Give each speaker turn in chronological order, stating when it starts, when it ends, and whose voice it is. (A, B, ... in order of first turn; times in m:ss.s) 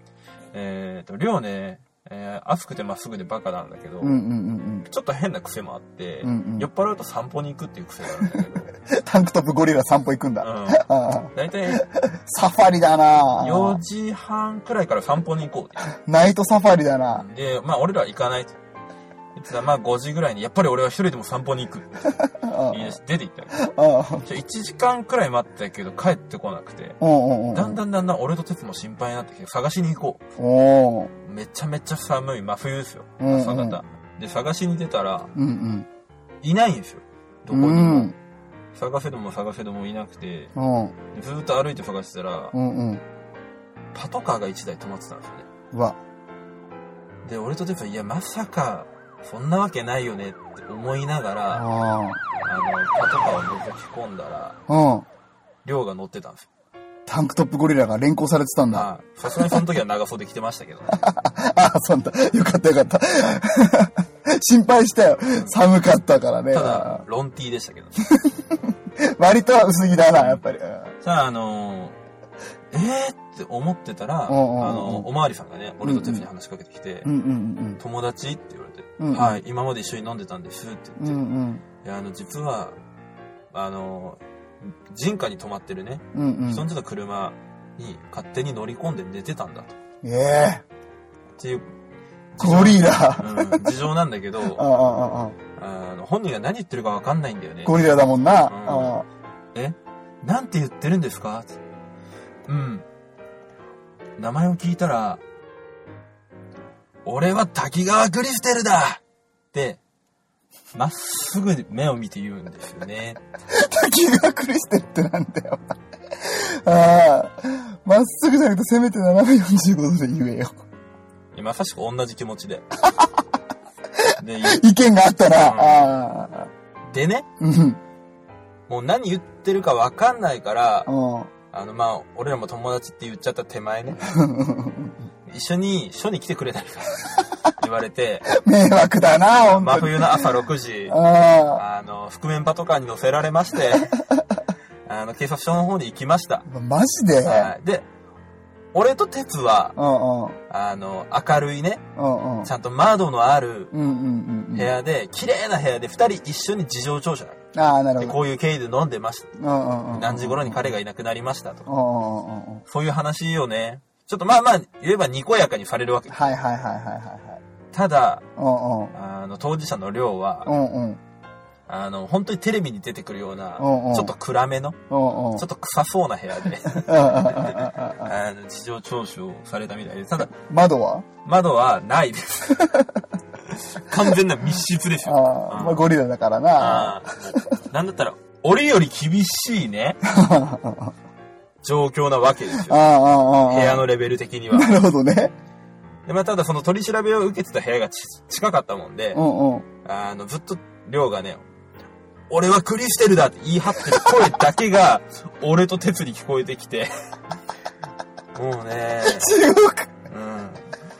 0:00.5-0:04.2 A
0:04.0-0:04.9 B
0:04.9-0:08.7 A
0:06.2-0:06.7 B
0:08.8-0:13.8 B
0:10.4-0:11.8 A
0:13.4-0:15.9 A
0:16.0-0:17.2 B
0:17.1-0:18.6 A
0:19.4-0:22.0 A
0:22.2-0:23.0 B
0:22.7-0:23.6 A
0:23.6-0:24.2 B
0:24.2-0:27.0 A
0:27.0-0:27.8 B
0:27.5-0:30.2 A
0:30.4-0:31.1 B
0:31.2-0:35.3 A
0:33.2-0:33.8 B
0:35.3-0:35.9 B
0:36.4-0:38.1 A
0:37.5-0:38.1 B
0:38.7-0:40.5 A
0:40.5-0:40.9 B
0:41.1-0:42.5 A
0:42.5-0:43.0 B
0:43.9-0:45.5 A
0:45.7-0:46.0 B
0:47.2-0:51.7 A
0:51.5-0:52.2 B
0:52.4-0:54.6 A
0:54.7-0:55.0 B
0:55.6-0:56.5 A
0:57.0-0:58.9 B
0:58.7-1:01.0 A
1:00.9-1:07.0 B
1:06.5-1:08.0 A
1:08.1-1:10.9 B
1:10.1-1:10.4 A
1:11.0-1:12.0 A
1:12.7-1:17.1 A
1:14.3-1:15.1 B
1:15.8-1:16.2 B
1:17.0-1:17.8 B
1:17.8-1:21.2 A
1:19.0-1:19.4 B
1:21.0-1:21.6 B
1:21.8-1:22.8 A
1:23.5-1:29.8 A
1:26.1-1:26.7 B
1:30.0-1:30.6 B
1:31.4-1:31.6 A
1:32.4-1:34.6 A
1:32.4-1:33.7 B
1:34.5-1:35.4 B
1:35.6-1:38.9 A
1:37.6-1:39.0 B
1:39.5-1:41.6 A
1:42.5-1:42.8 A
1:44.2-1:45.2 A
1:47.0-1:49.0 A
1:49.5-1:49.8 A
1:50.7-1:53.2 A
1:53.5-2:00.6 B
2:01.3-2:02.6 A
2:04.0-2:06.5 B
2:04.2-2:04.6 A
2:05.4-2:05.8 A
2:06.9-2:07.3 A
2:07.4-2:07.8 B
2:08.7-2:10.9 A
2:10.9-2:11.3 B
2:11.5-2:14.0 A
2:14.0-2:15.0 B
2:15.3-2:18.3 A
2:18.3-2:20.2 B
2:19.5-2:21.0 A
2:20.9-2:21.6 B
2:21.5-2:23.9 A
2:24.8-2:26.4 A
2:26.4-2:27.5 B
2:27.2-2:27.8 A
2:28.7-2:29.8 A
2:29.8-2:30.4 B
2:30.5-2:31.8 A
2:32.0-2:32.5 B
2:32.4-2:33.7 A
2:33.7-2:34.7 B
2:34.5-2:37.4 A
2:37.5-2:38.2 B
2:38.0-2:39.3 A
2:39.4-2:40.6 B
2:39.9-2:41.7 A
2:41.7-2:42.6 B
2:42.7-2:46.2 A
2:46.1-2:47.4 B
2:47.7-2:48.2 A
2:48.4-2:48.9 B
2:48.9-2:50.5 A
2:50.4-2:51.0 B
2:51.7-2:54.8 A
2:53.6-2:54.1 B
2:54.9-2:55.4 B
2:55.4-3:00.3 A
2:56.7-2:58.1 B
3:00.3-3:01.0 B
3:01.2-3:02.7 A
3:02.6-3:03.0 B
3:03.5-3:05.9 A
3:05.0-3:07.4 B
3:06.6-3:10.0 A
3:10.0-3:10.9 B
3:11.6-3:12.8 A
3:12.5-3:13.8 B
3:13.4-3:14.8 A
3:14.5-3:15.3 B
3:16.0-3:19.2 A
3:19.1-3:19.6 B
3:19.8-3:21.4 A
3:22.3-3:26.9 A
3:28.3-3:29.3 A
3:29.0-3:29.9 B
3:30.1-3:30.6 A